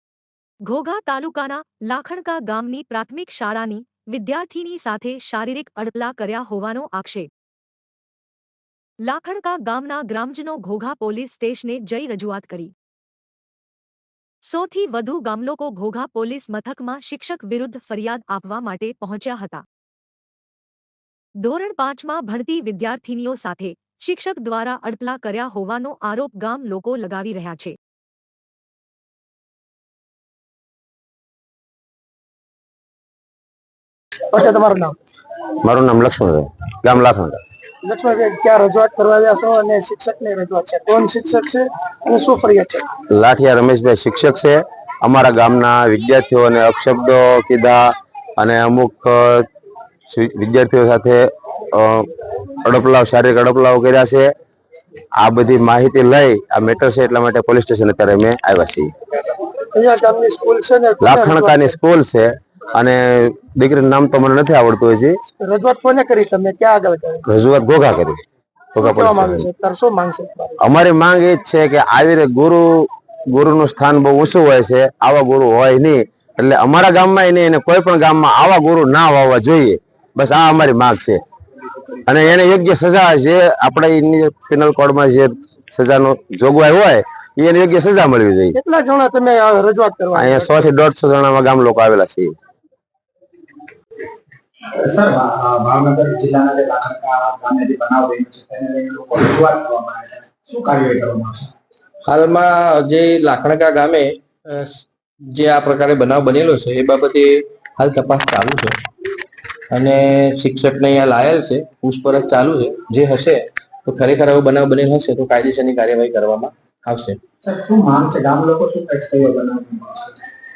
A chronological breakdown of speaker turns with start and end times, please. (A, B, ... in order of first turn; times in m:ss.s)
0:00.6-0:07.3 A
0:09.0-0:12.7 A
0:14.5-0:19.6 A
0:21.4-0:27.8 A
0:34.3-0:35.0 B
0:35.6-0:37.4 C
0:37.8-0:42.9 B
0:43.1-0:49.5 C
0:50.1-0:52.1 C
0:52.6-0:54.3 C
0:55.2-0:58.9 C
0:59.7-1:01.6 B
1:01.0-1:05.2 C
1:05.4-1:07.2 B
1:07.3-1:08.2 C
1:08.8-1:09.5 C
1:08.8-1:10.6 B
1:10.6-1:21.2 C
1:22.1-1:28.6 C
1:28.6-1:30.6 B
1:30.2-1:32.3 C
1:34.8-1:41.5 D
1:42.1-1:48.8 E
1:49.7-1:57.2 E
1:57.4-2:00.2 D